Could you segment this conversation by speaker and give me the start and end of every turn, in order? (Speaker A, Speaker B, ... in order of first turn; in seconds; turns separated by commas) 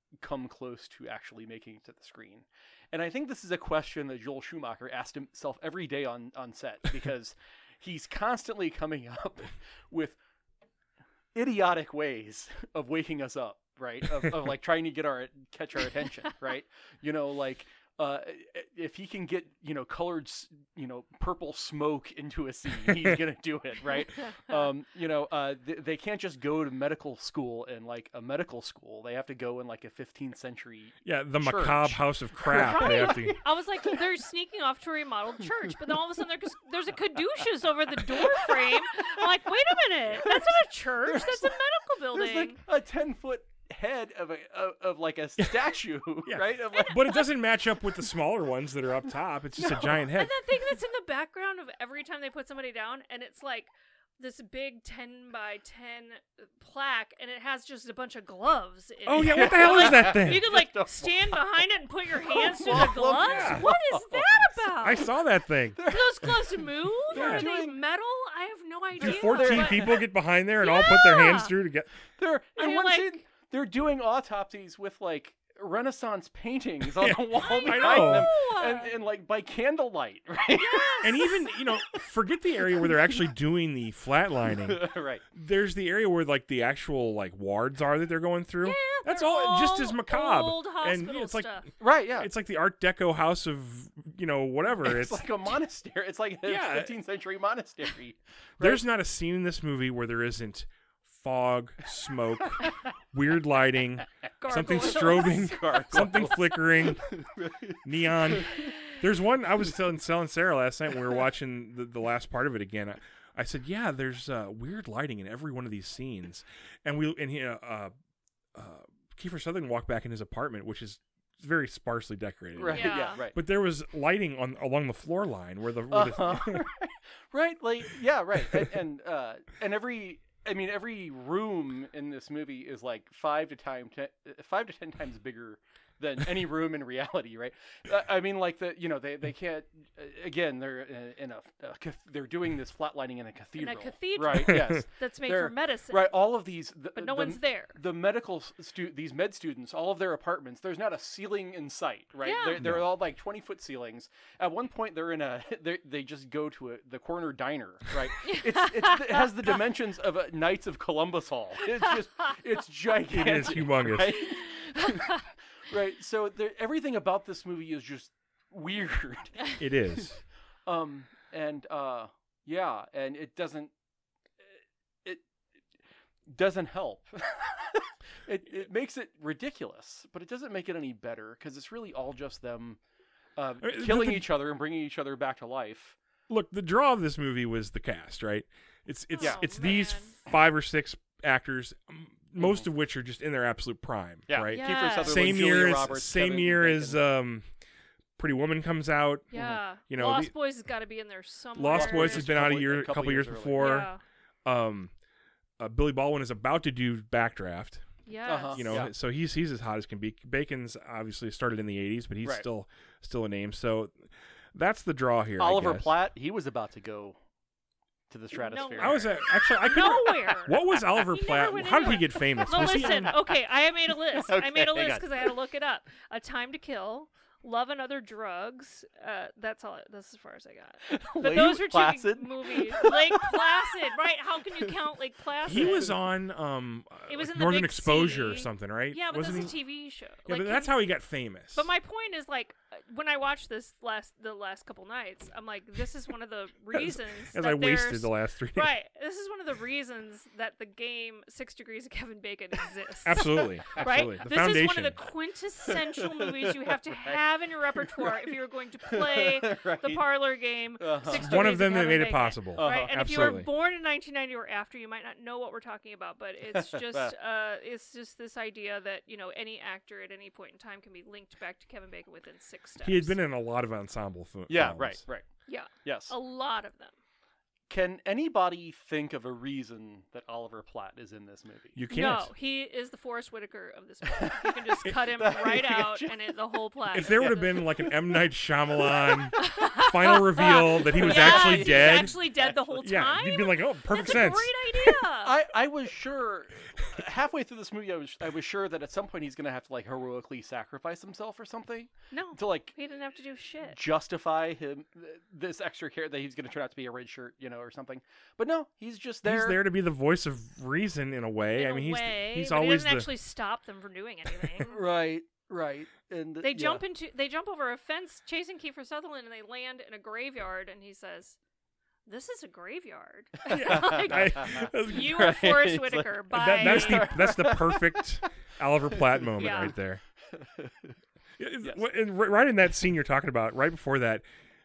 Speaker A: 0.2-10.2, Speaker A: 11.3-34.0, Speaker B: 22.9-23.1, Speaker B: 31.0-33.4, Speaker C: 32.5-42.6, Speaker A: 38.0-39.2, Speaker A: 40.1-41.6, Speaker A: 42.1-47.2, Speaker B: 46.2-50.3, Speaker A: 49.6-50.0, Speaker C: 50.1-65.1, Speaker B: 59.0-60.4, Speaker A: 59.2-61.6, Speaker A: 62.1-65.0, Speaker B: 63.2-63.7, Speaker B: 64.8-65.8, Speaker A: 65.7-67.8, Speaker C: 65.8-70.0, Speaker B: 67.1-67.5, Speaker B: 69.0-71.9, Speaker A: 69.0-70.0, Speaker C: 70.6-71.5, Speaker A: 72.2-81.3, Speaker C: 72.6-73.2, Speaker B: 77.0-78.3, Speaker C: 77.3-78.9, Speaker C: 80.5-81.4, Speaker B: 81.0-95.3, Speaker A: 84.6-85.2, Speaker C: 88.6-91.7, Speaker A: 91.8-92.3, Speaker A: 94.8-98.8, Speaker B: 96.4-96.9, Speaker B: 98.6-107.2, Speaker C: 104.4-105.8, Speaker A: 104.8-108.7, Speaker B: 107.8-117.9, Speaker B: 118.5-126.7, Speaker A: 122.6-123.4, Speaker C: 122.6-123.2, Speaker A: 125.9-170.1, Speaker C: 143.6-146.1, Speaker C: 146.9-147.8, Speaker C: 152.2-152.6, Speaker B: 152.6-152.8, Speaker C: 158.2-159.3, Speaker B: 163.1-164.2, Speaker C: 164.6-165.2, Speaker B: 169.6-170.2, Speaker A: 170.7-173.7, Speaker A: 176.3-182.8, Speaker A: 183.4-186.0, Speaker B: 183.6-184.3, Speaker B: 186.3-197.5, Speaker C: 189.1-190.2, Speaker A: 189.2-189.5, Speaker A: 192.4-192.6, Speaker A: 194.3-197.0, Speaker C: 194.5-195.4, Speaker B: 198.2-200.3, Speaker C: 199.3-202.3, Speaker A: 199.3-199.6, Speaker B: 201.6-203.9, Speaker A: 201.7-203.8, Speaker C: 203.6-204.0, Speaker B: 204.4-204.9, Speaker B: 205.6-207.8, Speaker C: 208.1-208.8, Speaker A: 208.2-208.9, Speaker B: 208.5-215.9, Speaker A: 215.4-217.2, Speaker A: 218.1-219.1, Speaker C: 218.3-235.9, Speaker B: 218.8-223.2, Speaker A: 222.6-223.3, Speaker A: 224.1-225.3, Speaker A: 230.8-233.8, Speaker B: 235.4-239.6, Speaker A: 235.5-235.9, Speaker C: 237.1-240.8, Speaker B: 240.2-241.7, Speaker C: 241.5-273.1, Speaker B: 246.7-248.7, Speaker B: 253.0-255.0, Speaker A: 253.2-253.8, Speaker A: 255.7-257.2, Speaker A: 257.7-258.3, Speaker A: 258.8-260.0, Speaker A: 260.8-261.6, Speaker B: 261.1-263.5, Speaker A: 262.5-263.4, Speaker A: 266.5-267.1, Speaker B: 272.8-275.0, Speaker A: 274.5-275.2, Speaker C: 275.5-276.9, Speaker A: 275.8-276.1, Speaker A: 277.7-281.8, Speaker B: 281.7-282.3, Speaker C: 281.9-287.7, Speaker A: 284.1-286.4, Speaker A: 286.9-287.9, Speaker B: 286.9-292.1, Speaker A: 288.8-289.5, Speaker C: 289.4-295.4, Speaker A: 290.4-292.7, Speaker B: 292.8-294.9, Speaker A: 295.2-302.7, Speaker C: 302.1-303.8, Speaker A: 303.7-309.6, Speaker B: 309.2-313.1, Speaker C: 311.5-314.8, Speaker A: 314.6-316.8, Speaker C: 316.4-321.4, Speaker C: 322.1-327.3, Speaker B: 323.5-325.2, Speaker A: 323.5-328.2, Speaker B: 326.3-330.0, Speaker A: 328.9-329.7, Speaker C: 329.4-329.8, Speaker A: 330.3-330.9, Speaker B: 331.4-334.2